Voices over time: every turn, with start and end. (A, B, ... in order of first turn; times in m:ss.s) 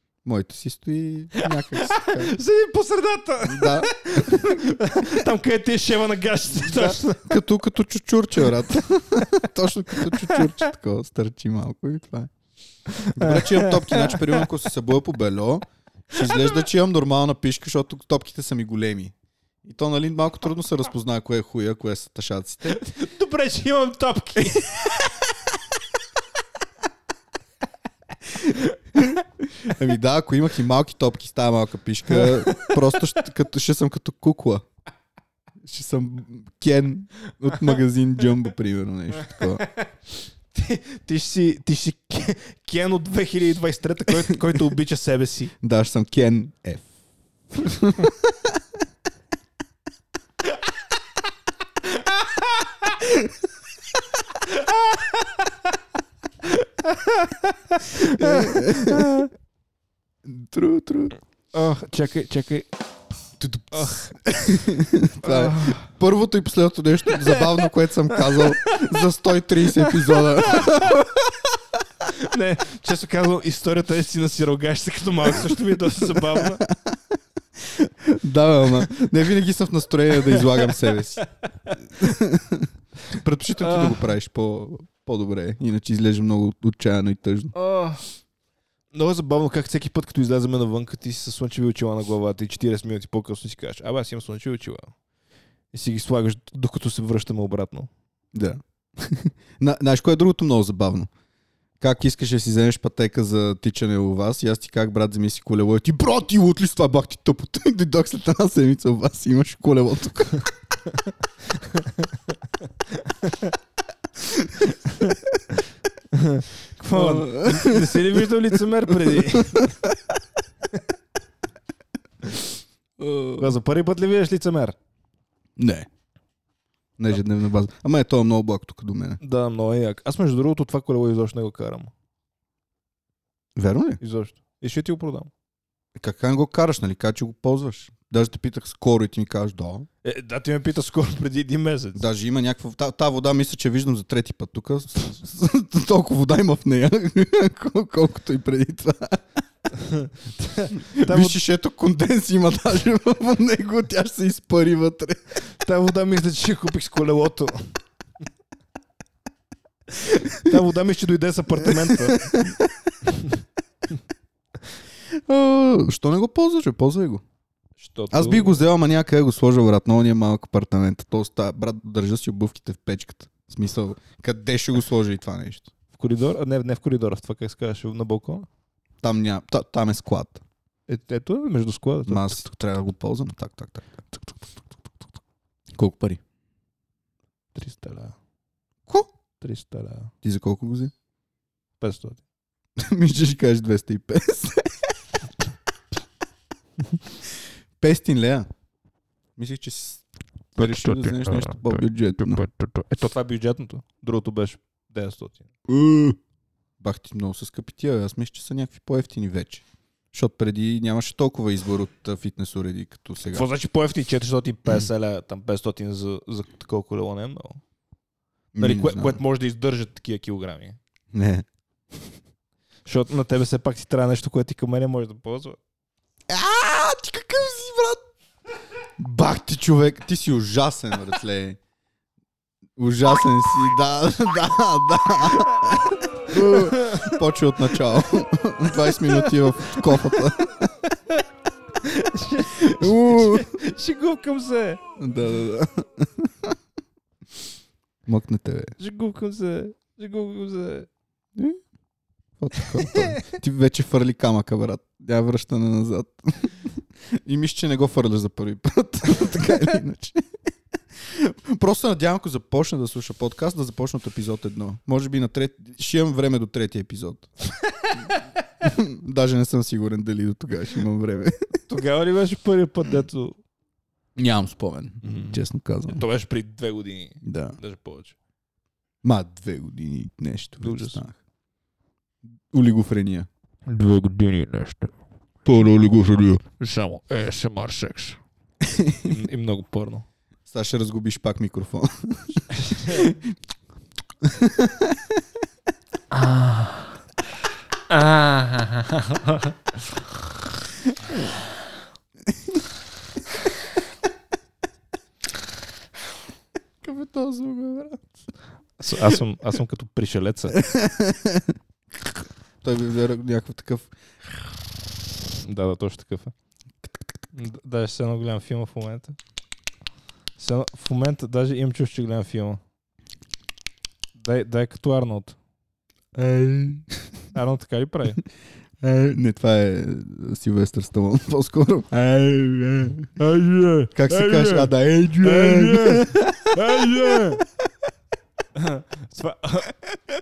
0:00.2-0:02.4 A
0:01.4-0:07.4 B
0:03.4-0:04.4 A
0:06.6-0:12.3 A
0:09.9-0:10.5 B
0:12.9-0:14.4 B
0:13.0-0:22.9 A
0:22.8-0:24.7 B
0:28.3-0:34.6 A
0:28.6-0:29.0 B
0:32.1-0:32.8 B
0:35.6-0:39.6 A
0:39.3-0:39.9 B
0:40.5-0:45.5 B
0:45.6-0:46.9 A
0:47.5-0:48.6 A
0:51.8-0:53.0 B
0:54.4-0:55.7 B
0:56.4-0:59.3 B
0:58.0-0:59.2 A
1:00.2-1:01.2 A
1:01.5-1:02.7 B
1:03.4-1:11.0 A
1:03.7-1:04.2 B
1:05.2-1:05.9 B
1:07.1-1:08.5 B
1:09.8-1:11.3 B
1:12.0-1:16.6 B
1:16.6-1:17.0 A
1:17.6-1:27.5 A
1:20.2-1:21.7 B
1:23.6-1:24.1 B
1:27.5-1:28.0 B
1:28.9-1:34.9 B
1:35.7-1:37.9 B
1:38.3-1:41.1 A
1:41.8-1:50.5 A
1:51.6-1:52.1 B
1:52.9-1:53.5 B
1:54.3-1:54.7 A
1:56.1-1:59.8 B
1:56.9-2:00.0 A
2:03.0-2:03.6 A
2:03.4-2:04.8 B
2:05.6-2:05.9 A
2:07.0-2:09.2 A
2:09.2-2:11.9 B
2:13.6-2:14.0 A
2:14.0-2:15.3 B
2:16.0-2:19.9 A
2:20.0-2:22.0 B
2:21.9-2:29.2 A
2:29.7-2:31.4 B
2:30.7-2:35.2 A
2:35.6-2:37.7 B
2:40.0-2:42.5 B
2:42.1-2:42.6 A
2:43.0-2:43.4 B
2:45.2-2:47.2 A
2:47.8-2:48.6 B
2:48.1-2:55.7 A
2:55.9-2:58.5 B
2:59.0-3:00.4 A
3:00.9-3:02.4 B
3:02.1-3:04.1 A
3:05.7-3:06.2 A
3:07.5-3:08.1 B
3:09.4-3:10.1 B
3:10.2-3:10.9 A
3:11.8-3:12.2 B
3:12.8-3:14.9 A
3:17.8-3:18.5 A
3:19.4-3:20.0 A
3:20.6-3:22.5 A
3:22.5-3:25.4 B
3:25.7-3:26.2 A
3:26.8-3:33.4 A
3:33.3-3:37.6 B
3:38.5-3:39.2 A
3:38.6-3:40.8 B
3:41.1-3:41.4 A
3:42.8-3:45.6 B
3:46.3-3:48.0 A
3:49.0-3:51.6 A
3:52.8-4:00.7 A
3:56.3-3:57.2 B
3:58.8-4:00.3 B
4:00.8-4:01.2 B
4:01.8-4:04.8 B
4:02.6-4:03.5 A
4:05.0-4:06.5 A
4:08.0-4:08.7 A
4:08.8-4:10.9 B
4:12.4-4:20.3 A
4:12.6-4:13.2 B
4:21.0-4:27.3 A
4:27.4-4:28.2 B
4:28.6-4:31.6 A
4:31.7-4:33.4 B
4:34.2-4:36.0 A
4:35.0-4:38.2 B
4:37.2-4:37.6 A
4:39.0-4:41.2 A
4:40.6-4:41.0 B
4:42.5-4:43.3 A
4:43.6-4:44.9 B
4:45.4-4:46.4 A
4:46.5-4:48.2 B
4:48.6-4:49.2 A
4:49.1-4:50.0 B
4:50.5-4:53.2 A
4:52.6-4:53.1 B
4:54.2-4:55.0 A
4:56.1-4:56.9 B
4:57.9-4:59.5 B
5:06.8-5:08.0 A
5:08.8-5:10.6 B
5:10.5-5:11.5 A
5:12.6-5:13.9 A
5:15.4-5:16.3 B
5:17.3-5:19.2 B
5:20.4-5:22.6 B
5:24.2-5:25.4 B
5:26.2-5:26.8 A
5:27.3-5:28.2 B
5:28.8-5:33.1 A
5:33.0-5:37.4 B
5:33.9-5:36.5 A
5:38.5-5:39.8 B